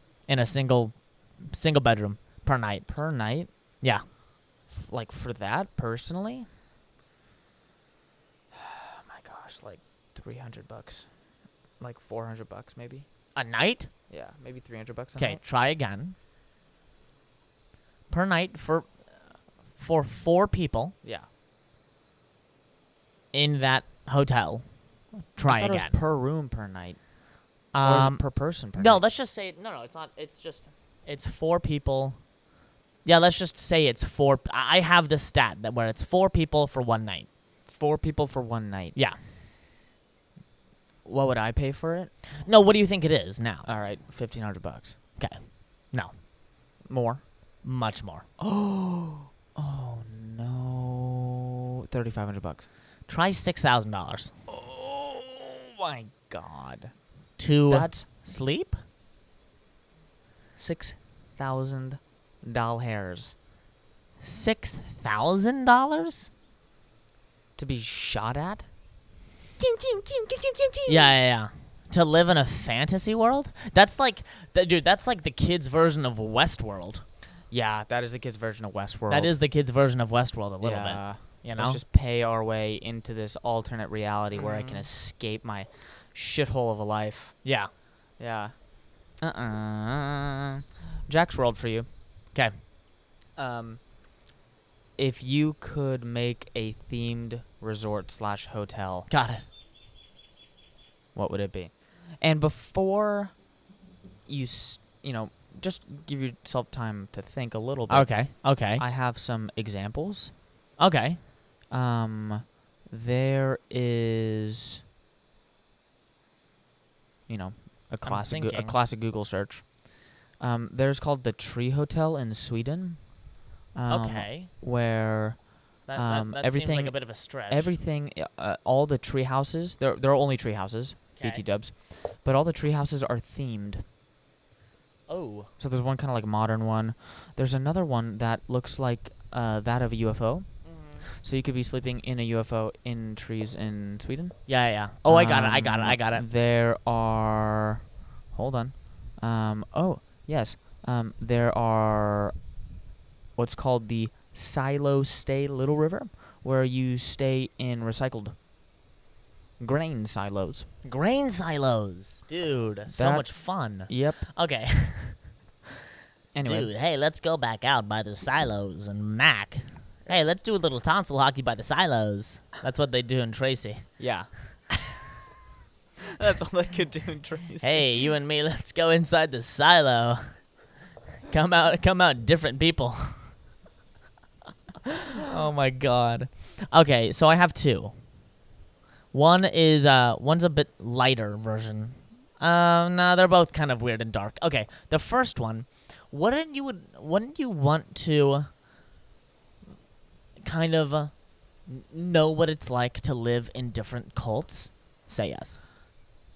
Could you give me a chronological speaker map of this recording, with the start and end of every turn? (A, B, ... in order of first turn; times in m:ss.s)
0:00.3-0:02.9 A
0:02.9-0:03.5 B
0:04.7-0:06.5 B
0:08.5-0:11.1 B
0:11.8-0:13.1 B
0:13.3-0:13.9 A
0:14.1-0:15.4 B
0:15.2-0:16.2 A
0:18.1-0:19.0 A
0:19.8-0:20.9 A
0:23.3-0:24.6 A
0:25.3-0:25.9 A
0:25.4-0:27.0 B
0:27.7-0:28.2 A
0:27.8-0:29.0 B
0:28.7-0:32.2 A
0:33.0-0:37.3 A
0:37.7-0:39.0 B
0:41.0-0:42.1 B
0:42.4-0:43.7 A
0:43.6-0:45.0 B
0:45.2-0:46.1 A
0:46.8-0:47.2 B
0:47.6-0:48.2 A
0:48.4-0:51.4 B
0:51.9-0:52.7 B
0:53.1-0:54.3 A
0:54.5-0:56.9 B
0:57.4-0:58.8 A
0:57.7-0:58.1 B
1:00.6-1:03.3 B
1:04.2-1:06.3 A
1:07.6-1:08.7 B
1:09.6-1:11.1 B
1:10.9-1:17.0 A
1:17.5-1:19.3 B
1:19.1-1:21.8 A
1:20.6-1:27.4 B
1:24.3-1:24.8 A
1:27.4-1:27.7 A
1:28.2-1:28.5 B
1:29.2-1:31.9 B
1:33.4-1:33.8 B
1:35.0-1:39.1 B
1:39.1-1:39.4 A
1:41.1-1:43.4 B
1:44.2-1:50.3 B
1:47.9-1:48.8 A
1:50.8-1:51.2 A
1:51.7-1:54.8 B
1:57.3-1:59.8 B
1:58.0-1:58.8 A
2:00.4-2:03.1 B
2:03.7-2:13.8 B
2:03.9-2:04.5 A
2:05.9-2:07.7 A
2:11.2-2:11.4 A
2:15.1-2:15.5 A
2:15.6-2:24.5 B
2:20.6-2:21.1 A
2:24.5-2:26.2 A
2:25.0-2:32.3 B
2:33.4-2:38.3 B
2:39.6-2:40.7 B
2:40.8-2:45.3 A
2:42.9-2:44.3 B
2:46.3-2:46.7 B
2:46.4-2:54.0 A
2:54.0-2:54.3 B
2:56.1-2:57.8 B
2:57.6-3:00.4 A
3:01.3-3:03.3 A
3:04.8-3:07.9 A
3:09.1-3:18.5 A
3:20.4-3:21.1 A
3:21.6-3:25.6 A